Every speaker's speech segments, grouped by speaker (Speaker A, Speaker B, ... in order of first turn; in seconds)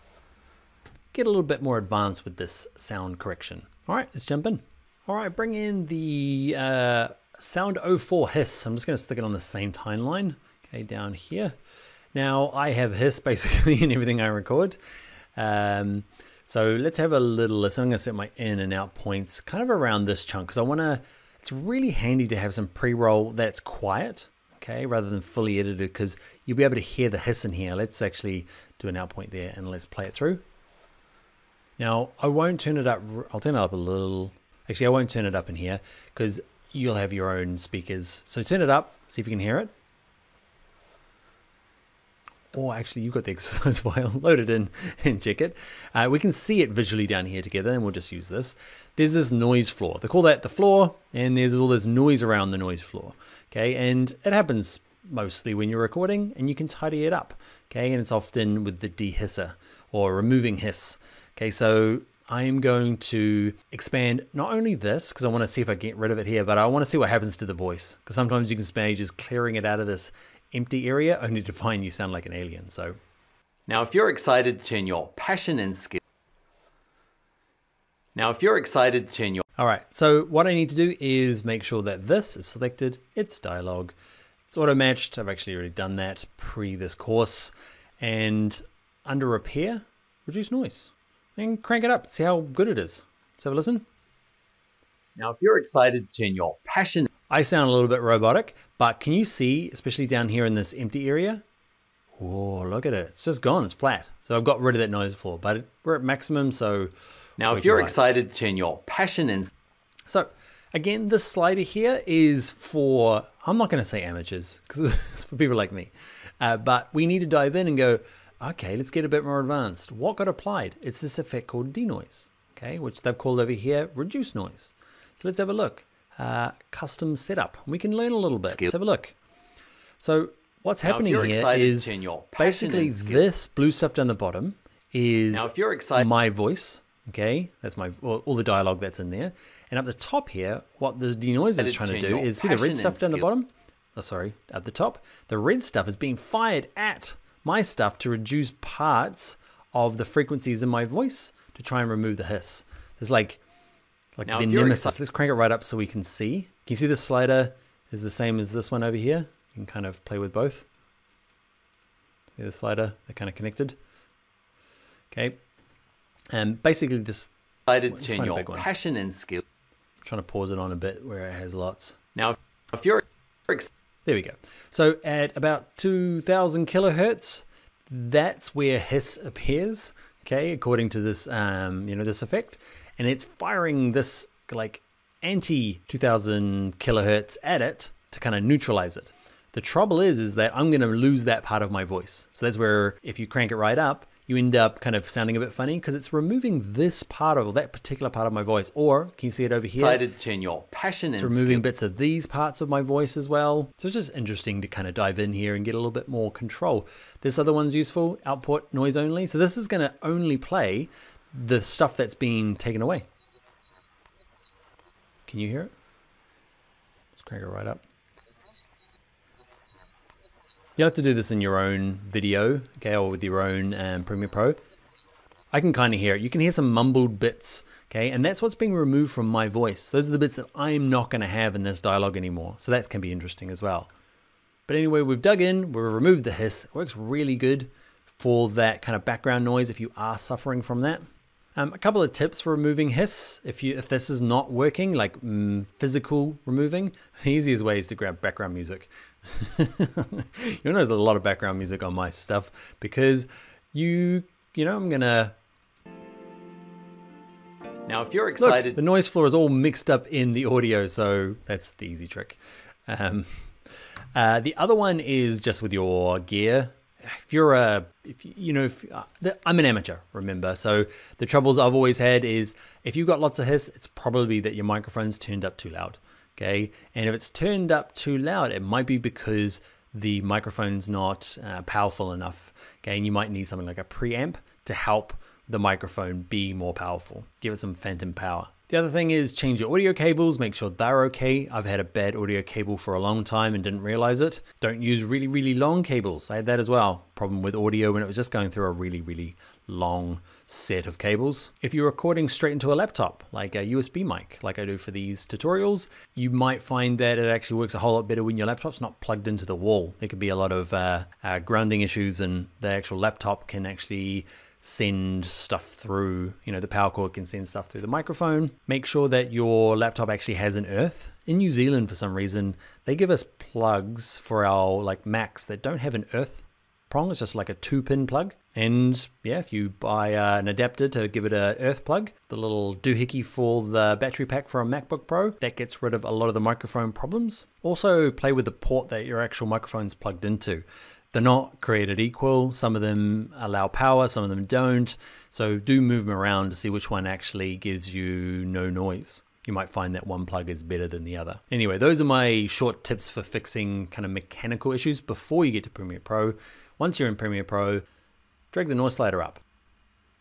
Speaker A: 1.1-11.5, 12.1-14.8, 15.3-30.4, 31.8-39.7, 42.5-73.0, 79.6-83.9, 84.5-93.8, 97.3-101.4, 102.2-106.9, 107.4-108.0, 110.1-129.2, 130.0-153.4, 154.2-160.7, 162.3-163.8, 165.1-165.4, 166.3-167.3, 167.9-168.7, 170.0-172.0, 174.0-200.0, 201.2-213.0, 215.3-215.7, 217.1-217.8, 220.8-224.6, 225.5-233.9, 234.7-241.0, 241.6-255.3, 258.4-263.5, 264.1-357.8, 358.5-359.4
Speaker B: 73.7-76.0, 78.1-79.4, 95.2-97.1, 107.4-109.5, 130.8-133.2, 135.3-136.1, 141.6-143.2, 154.2-154.9, 167.7-169.4, 172.1-173.7, 199.8-201.6, 257.9-258.8